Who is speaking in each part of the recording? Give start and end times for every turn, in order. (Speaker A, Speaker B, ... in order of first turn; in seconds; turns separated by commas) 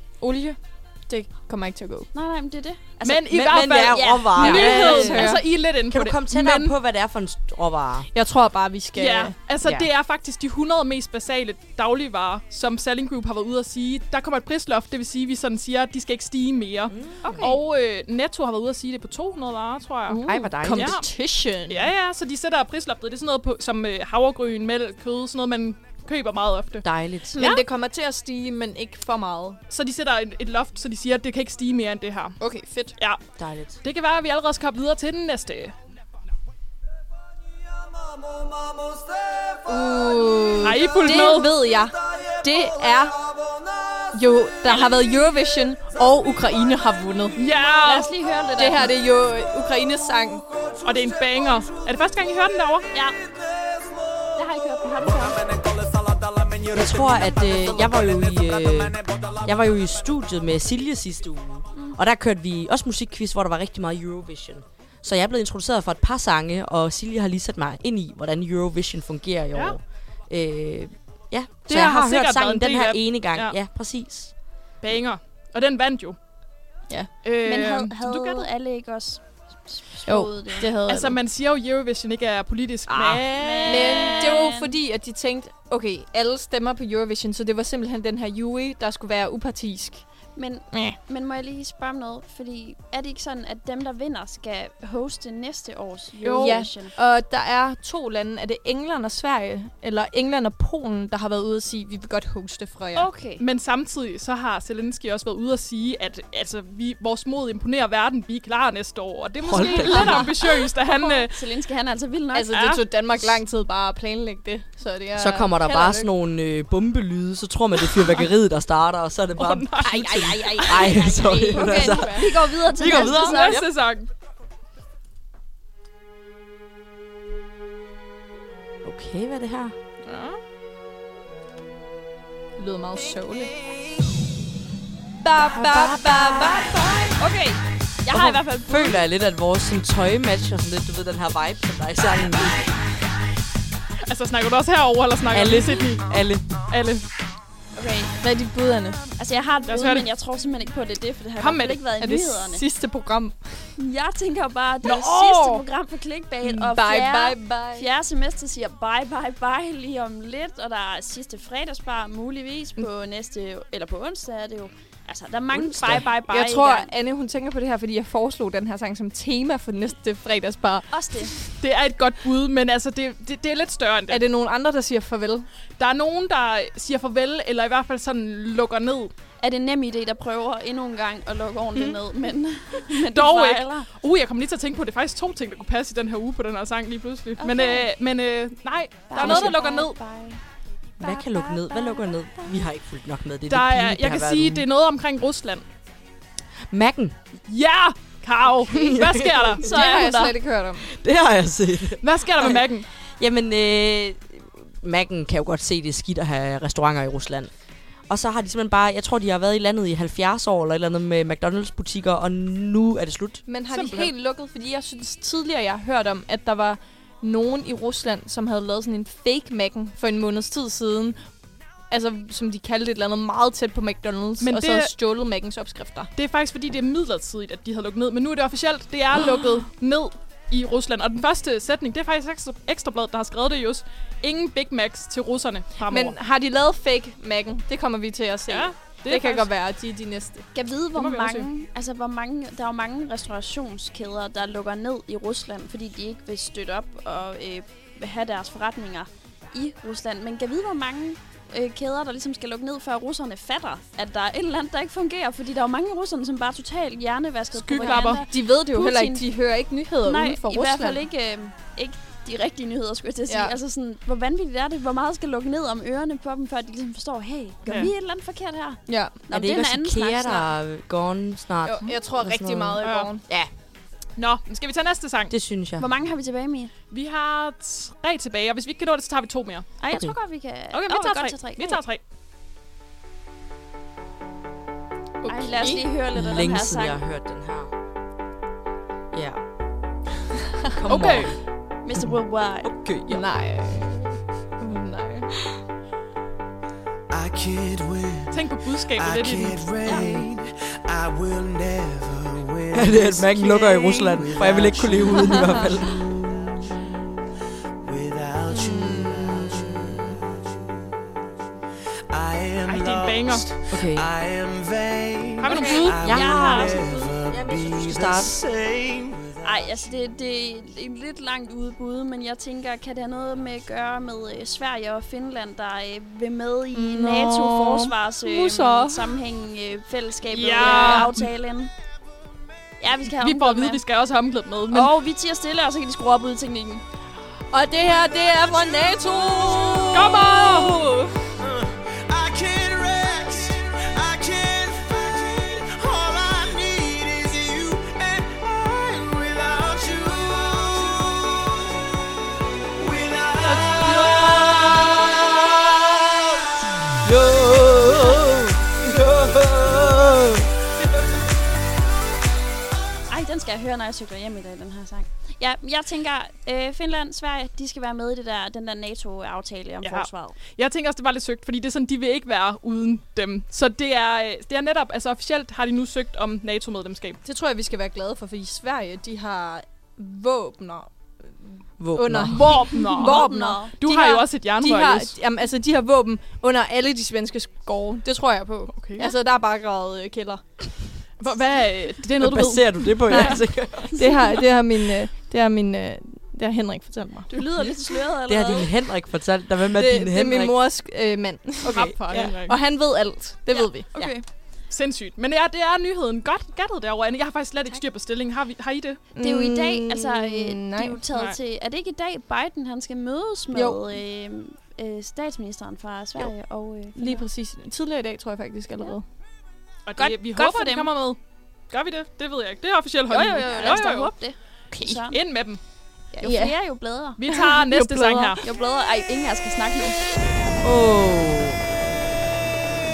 Speaker A: 0.2-2.1, Speaker B: 2.1-4.4, Speaker C: 3.0-6.7, Speaker D: 3.1-8.1, Speaker A: 4.4-5.5, Speaker A: 8.1-9.4, Speaker C: 8.9-21.1, Speaker D: 9.6-9.9, Speaker D: 16.9-17.5, Speaker B: 17.3-17.5, Speaker A: 20.1-21.9, Speaker D: 20.2-21.0, Speaker C: 21.7-26.9, Speaker D: 26.8-27.4, Speaker A: 27.3-29.6, Speaker C: 27.4-27.6, Speaker C: 29.7-32.4, Speaker A: 32.4-33.0, Speaker D: 33.4-33.8, Speaker C: 33.8-35.8, Speaker A: 39.7-43.2, Speaker C: 40.6-41.5, Speaker A: 44.1-47.4, Speaker C: 47.4-48.1, Speaker B: 47.8-48.9, Speaker A: 48.6-50.4, Speaker C: 50.8-52.9, Speaker B: 54.4-55.4, Speaker E: 55.3-59.3, Speaker D: 56.7-74.3, Speaker C: 71.7-73.5, Speaker C: 74.8-76.2, Speaker A: 76.9-77.2, Speaker C: 77.2-78.5, Speaker B: 77.4-80.7, Speaker A: 80.1-81.2, Speaker C: 80.8-84.3, Speaker B: 83.0-84.8, Speaker A: 83.6-90.0, Speaker B: 90.3-96.9, Speaker A: 90.7-91.0, Speaker C: 96.2-96.6, Speaker A: 96.3-103.1, Speaker B: 103.0-103.4, Speaker C: 103.4-111.4, Speaker D: 109.4-110.3, Speaker A: 109.6-110.2, Speaker B: 109.8-112.8, Speaker A: 112.3-116.1, Speaker D: 115.2-123.7, Speaker C: 119.4-121.0, Speaker B: 120.7-123.6, Speaker A: 120.8-122.3, Speaker A: 122.9-123.2, Speaker C: 122.9-124.1, Speaker D: 128.8-129.8, Speaker C: 130.0-130.4, Speaker A: 132.6-133.5, Speaker A: 135.2-136.8, Speaker D: 135.6-136.7, Speaker B: 137.2-139.0, Speaker D: 138.1-142.7, Speaker C: 144.1-147.0, Speaker D: 145.3-146.5, Speaker B: 147.8-148.1, Speaker A: 148.2-149.1, Speaker B: 149.2-152.6, Speaker C: 149.7-150.1, Speaker C: 151.4-151.9, Speaker A: 152.0-153.6, Speaker B: 153.8-166.9, Speaker A: 154.8-155.6, Speaker A: 156.4-157.9, Speaker D: 165.5-166.1, Speaker A: 166.3-171.4, Speaker B: 170.9-171.3, Speaker C: 171.6-174.2, Speaker A: 174.1-175.5, Speaker C: 175.8-179.1, Speaker B: 179.4-183.9, Speaker C: 182.8-190.0, Speaker B: 187.4-187.9, Speaker B: 189.1-190.4, Speaker D: 189.2-189.5, Speaker D: 191.0-194.7, Speaker B: 191.0-192.6, Speaker C: 193.5-195.7, Speaker D: 196.7-197.2, Speaker C: 197.5-200.3, Speaker D: 198.6-199.7, Speaker A: 199.6-200.9, Speaker B: 199.7-200.3, Speaker D: 200.8-207.5, Speaker C: 202.0-202.9, Speaker D: 208.1-213.4, Speaker A: 213.5-221.2, Speaker C: 213.7-214.1, Speaker A: 221.9-226.1, Speaker C: 224.4-224.9, Speaker C: 226.2-236.2, Speaker A: 235.8-240.5, Speaker C: 238.5-239.5, Speaker B: 240.5-259.3, Speaker C: 240.9-241.5, Speaker C: 257.5-258.3, Speaker A: 257.8-261.0, Speaker B: 260.0-270.5, Speaker A: 263.3-263.6, Speaker C: 267.7-267.9, Speaker A: 268.9-269.2, Speaker D: 269.3-273.5, Speaker A: 271.6-273.2, Speaker C: 272.8-273.1, Speaker C: 274.2-275.3, Speaker D: 275.3-275.9, Speaker B: 275.8-276.7, Speaker C: 276.9-279.7, Speaker B: 279.8-281.8, Speaker D: 279.9-280.2, Speaker C: 280.7-282.0, Speaker A: 285.2-285.9, Speaker B: 285.3-287.0, Speaker D: 286.1-287.7, Speaker D: 289.1-289.4, Speaker D: 290.8-291.4, Speaker C: 290.9-291.4, Speaker B: 291.8-292.7, Speaker D: 292.0-293.2, Speaker A: 293.1-295.3, Speaker E: 297.1-306.0, Speaker C: 298.3-299.7, Speaker D: 299.9-300.2, Speaker D: 302.7-306.2, Speaker E: 307.8-310.4, Speaker A: 308.5-309.2, Speaker D: 309.3-310.0, Speaker E: 312.1-319.9, Speaker C: 312.7-313.5, Speaker D: 313.7-314.1, Speaker C: 315.4-316.7, Speaker B: 315.5-317.1, Speaker D: 315.7-318.4, Speaker B: 319.4-331.7, Speaker A: 326.7-329.1, Speaker C: 330.3-331.3, Speaker A: 330.6-331.0, Speaker B: 332.8-333.8, Speaker C: 333.1-334.9, Speaker B: 334.7-336.8, Speaker A: 337.5-341.1, Speaker C: 339.9-340.8, Speaker E: 341.4-351.8, Speaker E: 352.8-356.1, Speaker D: 353.9-354.2, Speaker D: 357.1-360.4, Speaker B: 363.1-370.4, Speaker C: 369.8-377.2, Speaker A: 377.2-390.4, Speaker D: 381.8-382.7, Speaker C: 382.3-385.1, Speaker B: 382.9-383.8, Speaker C: 388.7-389.1, Speaker C: 391.2-393.3, Speaker D: 392.2-394.1, Speaker A: 393.1-397.3, Speaker B: 397.3-398.7, Speaker D: 398.3-400.6, Speaker A: 399.7-404.1, Speaker D: 401.6-402.3, Speaker C: 401.7-402.6, Speaker B: 403.5-404.2, Speaker C: 404.7-409.0, Speaker A: 409.1-411.0, Speaker B: 409.2-417.3, Speaker C: 411.1-411.4, Speaker A: 413.5-413.9, Speaker A: 416.9-419.1, Speaker C: 419.9-424.3, Speaker B: 420.0-420.9, Speaker B: 423.1-425.2, Speaker C: 424.8-425.6, Speaker B: 426.1-427.2, Speaker A: 426.1-426.6, Speaker C: 427.2-428.4, Speaker A: 427.3-428.4, Speaker B: 428.4-430.0, Speaker D: 430.6-431.6